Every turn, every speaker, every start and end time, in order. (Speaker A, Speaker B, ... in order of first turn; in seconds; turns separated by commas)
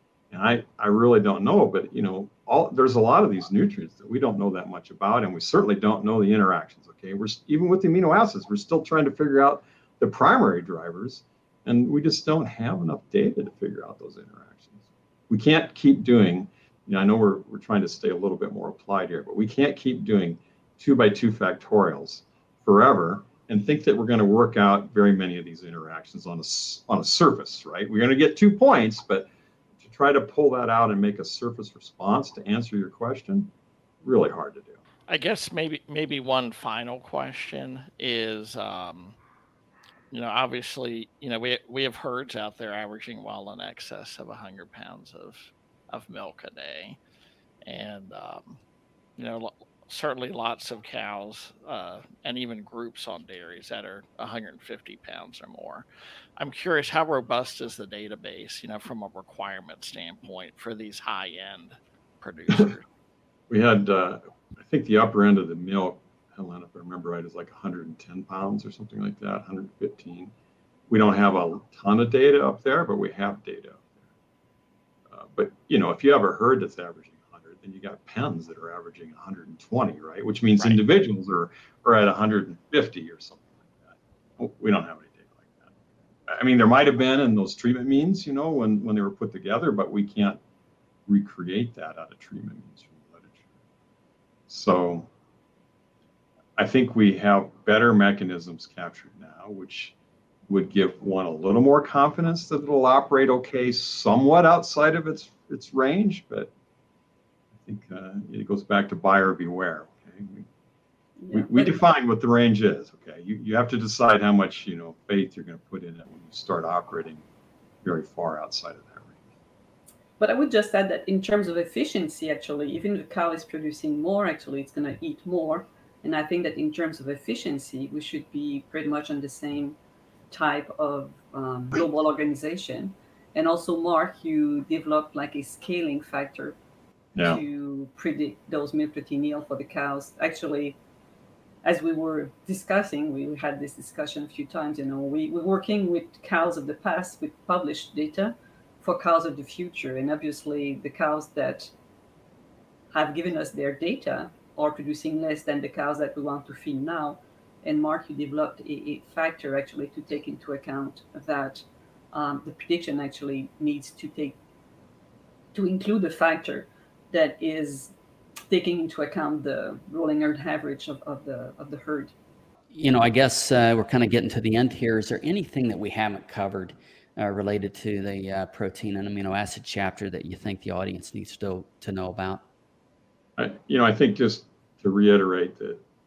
Speaker A: 0.3-29.3, Speaker A: 29.8-33.5, Speaker A: 34.0-34.8, Speaker B: 35.1-39.2, Speaker B: 40.1-47.0, Speaker B: 47.6-48.6, Speaker B: 49.2-55.9, Speaker B: 56.4-62.9, Speaker A: 63.5-70.3, Speaker A: 70.9-74.0, Speaker A: 75.1-83.7, Speaker A: 84.4-85.7, Speaker A: 86.3-90.4, Speaker A: 91.1-93.5, Speaker A: 94.5-95.1, Speaker A: 96.6-99.9, Speaker A: 100.5-106.5, Speaker A: 107.6-110.5, Speaker C: 111.2-111.7, Speaker A: 111.3-117.2, Speaker A: 117.8-119.1, Speaker C: 120.2-129.8, Speaker C: 130.3-136.6, Speaker A: 137.2-137.4, Speaker C: 137.2-140.8, Speaker C: 141.6-151.7, Speaker C: 152.9-164.4, Speaker C: 165.5-167.9, Speaker C: 168.5-172.1, Speaker D: 172.7-182.4, Speaker A: 183.4-185.8